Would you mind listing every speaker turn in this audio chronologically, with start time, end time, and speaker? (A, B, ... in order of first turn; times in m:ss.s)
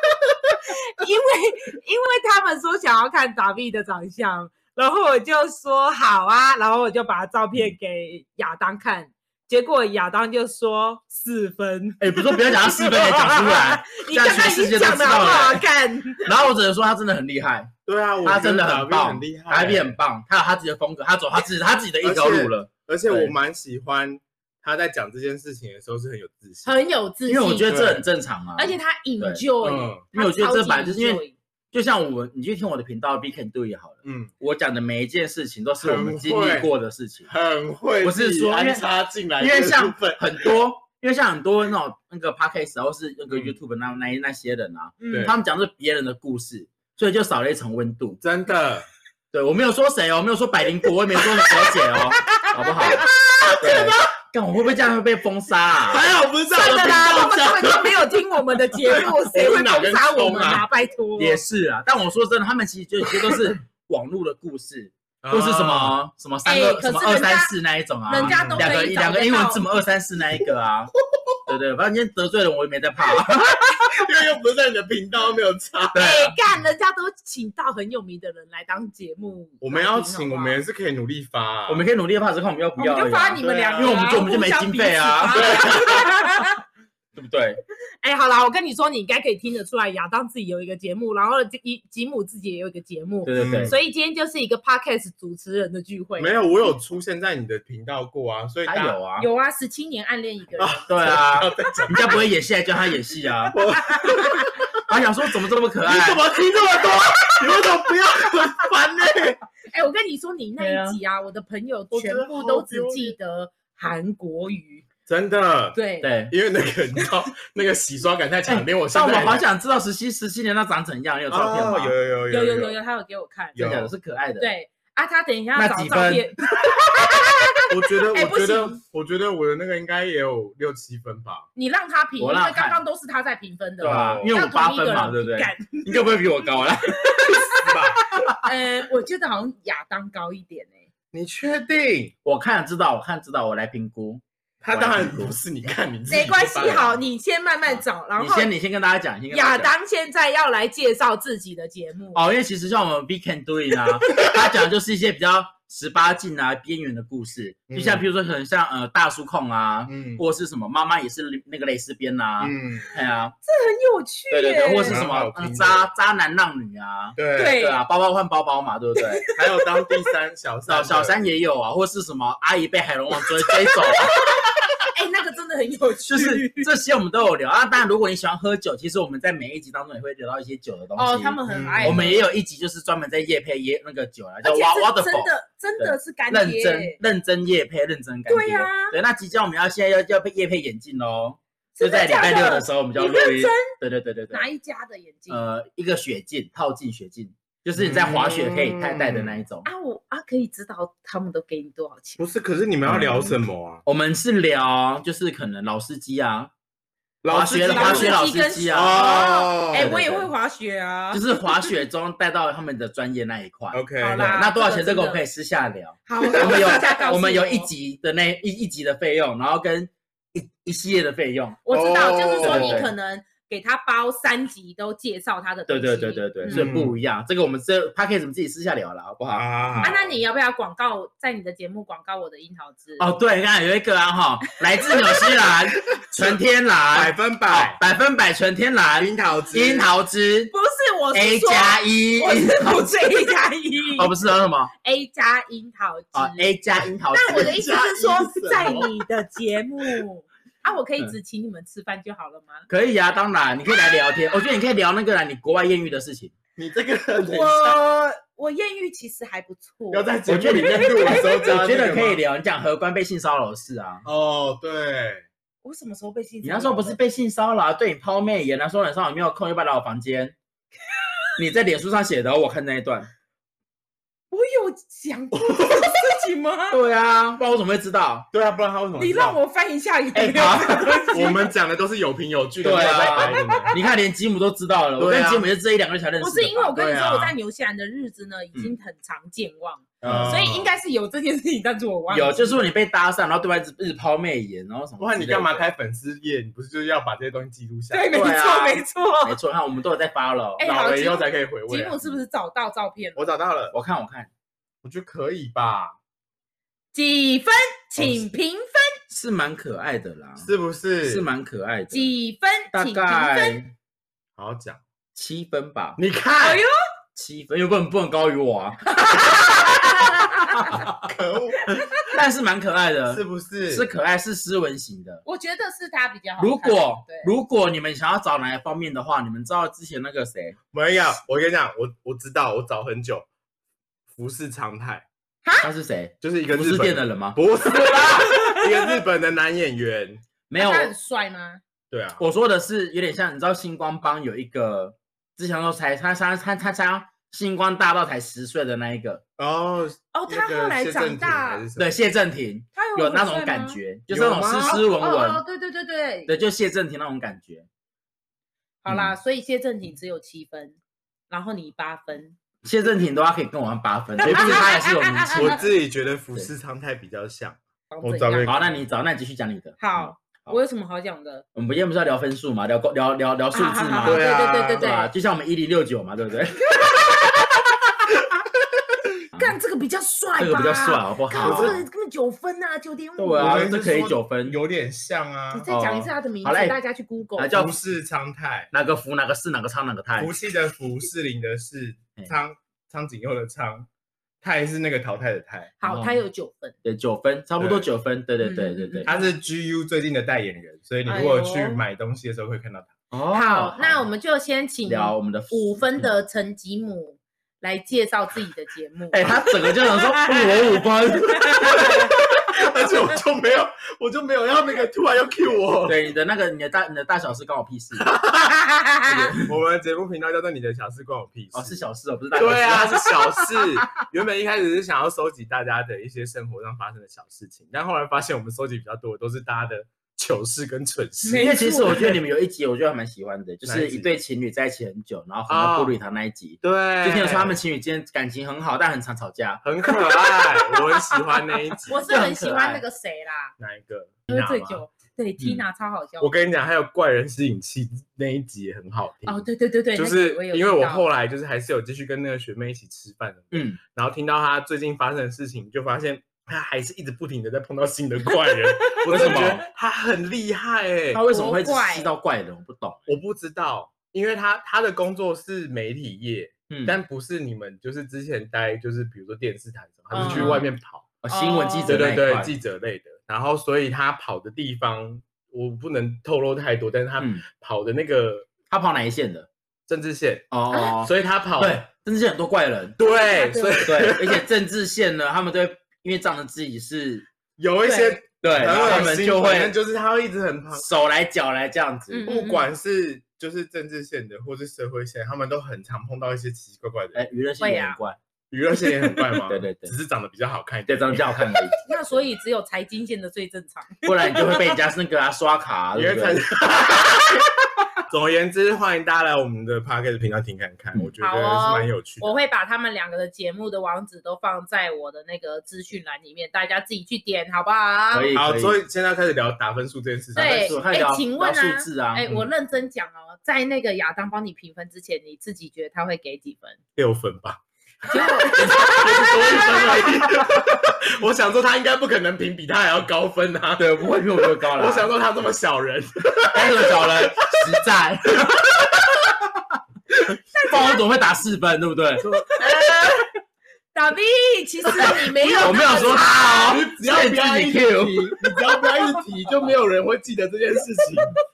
0:00.6-0:16.3 A
0:12.0-0:15.6 B
0:16.2-0:23.3 B
0:17.8-0:19.9 C
0:22.0-0:26.7 C
0:26.6-0:27.7 A
0:27.3-0:29.4 B
0:27.7-0:28.0 C
0:28.6-0:31.3 A
0:29.6-0:30.0 C
0:30.1-0:37.3 B
0:34.0-0:34.3 C
0:35.8-0:36.7 C
0:37.3-0:40.5 C
0:38.0-0:38.8 B
0:39.4-0:48.2 B
0:45.0-0:45.3 A
0:48.2-0:48.9 C
0:49.3-0:53.0 B
0:52.8-0:54.1 C
0:53.6-0:56.0 B
0:55.8-0:58.1 C
0:56.5-1:01.4 A
0:58.8-1:00.6 C
1:01.2-1:10.9 B
1:05.2-1:06.0 C
1:06.4-1:07.5 A
1:08.1-1:09.6 A
1:08.2-1:08.7 C
1:11.5-1:13.8 B
1:13.8-1:16.0 C
1:15.9-1:16.3 B
1:16.0-1:20.6 A
1:19.6-1:21.8 C
1:21.7-1:26.1 B
1:22.8-1:26.6 A
1:23.4-1:24.2 C
1:25.3-1:26.0 C
1:27.1-1:27.6 B
1:28.0-1:36.4 A
1:33.2-1:33.8 B
1:33.3-1:33.8 C
1:36.2-1:39.0 C
1:38.6-1:39.3 B
1:39.2-1:40.8 A
1:40.6-1:42.2 C
1:40.9-1:43.6 B
1:43.5-1:44.7 C
1:44.0-1:44.4 A
1:44.9-1:46.2 B
1:45.8-1:49.4 C
1:49.7-1:54.8 A
1:50.6-1:51.0 B
1:51.9-1:53.1 C
1:55.1-1:55.8 C
1:55.7-1:56.1 A
1:56.0-1:56.3 B
1:56.3-1:59.4 C
1:58.5-2:01.9 B
2:01.3-2:02.8 C
2:02.3-2:03.6 A
2:03.5-2:03.9 C
2:03.6-2:04.5 B
2:04.4-2:08.8 A
2:05.5-2:06.3 B
2:07.7-2:11.5 C
2:11.6-2:16.1 A
2:12.2-2:12.8 B
2:13.8-2:14.3 C
2:13.8-2:17.4 B
2:16.9-2:17.7 A
2:17.6-2:18.1 C
2:18.4-2:20.8 A
2:21.1-2:22.1 C
2:22.2-2:25.4 B
2:24.6-2:27.0 C
2:26.1-2:28.5 A
2:27.7-2:29.7 B
2:29.3-2:32.2 A
2:32.1-2:43.3 B
2:37.7-2:38.0 C
2:39.8-2:40.2 C
2:42.4-2:42.9 C
2:43.4-2:45.0 A
2:44.3-2:49.2 B
2:44.9-2:45.9 C
2:47.2-2:47.6 C
2:47.3-2:47.8 A
2:49.0-2:49.9 A
2:49.3-2:51.2 C
2:50.7-2:54.2 B
2:53.2-2:56.7 A
2:56.1-3:14.4 B
3:01.0-3:02.3 A
3:01.5-3:02.1 C
3:04.4-3:07.0 A
3:08.3-3:09.0 A
3:11.8-3:13.7 A
3:14.3-3:15.4 A
3:15.3-3:19.7 B
3:17.8-3:19.4 C
3:19.6-3:22.2 A
3:22.2-3:23.8 C
3:22.8-3:23.3 B
3:23.8-3:26.5 B
3:27.2-3:30.0 C
3:27.3-3:29.2 B
3:27.7-3:31.2 A
3:29.7-3:30.3 B
3:31.1-3:41.6 B
3:33.7-3:34.3 C
3:34.0-3:35.2 A
3:36.1-3:37.7 A
3:41.6-3:46.7 A
3:41.7-3:42.8 C
3:42.3-3:42.9 B
3:45.7-3:49.9 B
3:46.5-3:47.0 C
3:49.3-3:50.1 C
3:49.8-3:53.1 A
3:53.0-4:00.5 B
3:56.9-3:57.8 C
3:59.0-3:59.9 C
4:00.5-4:04.1 A
4:01.1-4:02.9 B
4:04.0-4:04.7 B
4:04.8-4:06.5 A
4:06.1-4:07.6 B
4:07.1-4:12.7 A
4:07.3-4:08.9 C
4:12.7-4:16.3 B
4:16.6-4:17.8 C
4:17.2-4:21.4 A
4:19.9-4:22.2 C
4:20.3-4:24.0 B
4:24.0-4:25.2 C
4:25.6-4:27.0 A
4:26.4-4:30.3 B
4:31.4-4:33.1 B
4:34.3-4:36.8 A
4:35.4-4:35.9 C
4:36.7-4:38.3 B
4:38.3-4:39.4 C
4:39.0-4:41.4 A
4:40.2-4:40.6 C
4:40.3-4:41.1 B
4:41.1-4:43.7 C
4:42.6-4:46.8 B
4:43.2-4:43.7 A
4:45.0-4:45.5 C
4:46.2-4:52.6 A
4:46.8-4:47.3 C
4:50.0-4:50.4 B
4:50.0-4:50.8 C
4:52.1-4:55.6 B
4:55.0-4:58.2 C
4:57.9-4:59.4 A
4:58.1-5:00.6 B
5:00.6-5:03.3 A
5:00.6-5:02.2 C
5:03.2-5:03.7 C
5:03.7-5:04.3 B
5:04.8-5:06.0 C
5:06.9-5:09.0 A
5:09.1-5:10.5 B
5:10.4-5:11.3 C
5:11.0-5:12.1 B
5:11.9-5:13.6 A
5:12.7-5:13.7 B
5:14.4-5:14.8 C
5:15.1-5:16.0 B
5:16.0-5:16.6 C
5:16.4-5:16.7 A
5:17.2-5:19.7 B
5:19.0-5:20.8 A
5:20.5-5:20.9 B
5:20.9-5:22.0 C
5:21.7-5:22.0 A
5:22.1-5:25.2 B
5:23.1-5:23.8 C
5:25.2-5:27.3 A
5:26.4-5:30.6 B
5:30.7-5:33.2 C
5:34.1-5:35.0 C
5:35.6-5:37.4 B
5:36.2-5:40.2 C
5:38.0-5:38.7 A
5:40.5-5:40.9 B
5:40.6-5:41.6 A
5:41.9-5:42.2 C
5:42.2-5:49.2 B
5:49.4-5:52.0 C
5:50.1-5:51.6 A
5:51.8-5:55.4 B
5:52.7-5:53.8 A
5:54.1-5:54.8 C
5:54.6-5:56.3 A
5:56.3-5:57.7 B
5:58.8-6:00.8 A
5:58.9-5:59.1 B
6:01.3-6:02.4 A
6:02.6-6:05.6 B
6:04.2-6:05.6 A
6:04.2-6:04.7 C
6:05.3-6:08.8 C
6:07.9-6:08.6 A
6:08.4-6:10.6 B
6:09.8-6:11.4 A
6:11.6-6:16.7 B
6:13.5-6:15.1 A
6:14.0-6:14.8 C
6:16.8-6:17.3 A
6:19.3-6:23.6 A
6:20.4-6:21.8 B
6:21.4-6:21.8 C
6:23.2-6:24.6 B
6:23.4-6:25.7 C
6:25.5-6:27.5 A
6:25.7-6:26.8 B
6:27.4-6:27.7 B
6:27.5-6:28.7 C
6:28.7-6:30.3 B
6:30.2-6:33.9 C
6:34.4-6:35.7 C
6:35.8-6:36.7 A
6:35.8-6:36.2 B
6:36.8-6:39.1 B
6:37.6-6:37.9 C
6:38.4-6:39.2 A
6:39.0-6:43.0 C
6:41.1-6:41.8 A
6:43.1-6:44.1 B
6:43.3-6:52.1 A
6:44.8-6:46.1 B
6:49.1-6:51.9 B
6:51.6-6:56.0 C
6:55.8-6:58.1 B
6:58.0-6:58.6 C
6:58.6-6:59.3 A
6:59.1-6:59.4 B
6:59.3-7:12.0 C
7:01.5-7:03.1 B
7:11.2-7:12.1 A
7:11.3-7:19.6 B
7:13.6-7:14.1 C
7:15.5-7:16.0 C
7:16.6-7:17.6 C
7:19.6-7:22.0 C
7:19.9-7:20.8 A
7:21.8-7:23.6 A
7:22.0-7:22.8 B
7:23.6-7:24.8 C
7:24.3-7:26.4 A
7:26.2-7:41.2 C
7:29.2-7:31.0 A
7:33.5-7:33.8 B
7:38.4-7:39.5 A
7:39.1-7:39.6 B
7:41.1-7:43.1 B
7:41.3-7:42.1 A
7:43.1-7:51.1 C
7:46.7-7:47.0 B
7:50.1-7:50.7 A
7:50.1-7:50.6 B
7:51.2-7:52.5 B
7:51.3-7:52.0 A
7:51.8-7:58.5 C
7:57.2-7:57.4 B
7:58.7-7:59.5 B
7:59.9-8:01.8 C
8:00.5-8:03.0 B
8:03.0-8:04.4 C
8:03.0-8:03.9 A
8:03.8-8:07.2 B
8:07.6-8:10.9 C
8:07.8-8:09.1 A
8:08.4-8:09.7 B
8:10.7-8:12.2 B
8:12.1-8:12.7 A
8:12.3-8:17.2 C
8:17.1-8:18.2 B
8:17.6-8:18.0 A
8:18.5-8:21.6 C
8:19.5-8:19.9 B
8:20.9-8:21.7 B
8:21.8-8:24.7 A
8:24.0-8:26.4 B
8:25.9-8:27.5 C
8:28.0-8:32.4 C
8:31.2-8:38.3 A
8:38.1-8:38.8 B
8:38.4-8:40.8 C
8:40.3-8:42.3 B
8:40.4-8:46.8 A
8:47.0-8:57.7 C
8:48.1-8:50.1 A
8:48.5-8:49.0 B
8:53.8-8:55.1 B
8:56.5-8:59.8 B
9:00.5-9:01.0 A
9:00.6-9:02.3 B
9:02.2-9:03.1 C
9:02.5-9:03.3 A
9:03.9-9:06.8 A
9:05.0-9:08.4 B
9:06.6-9:11.3 C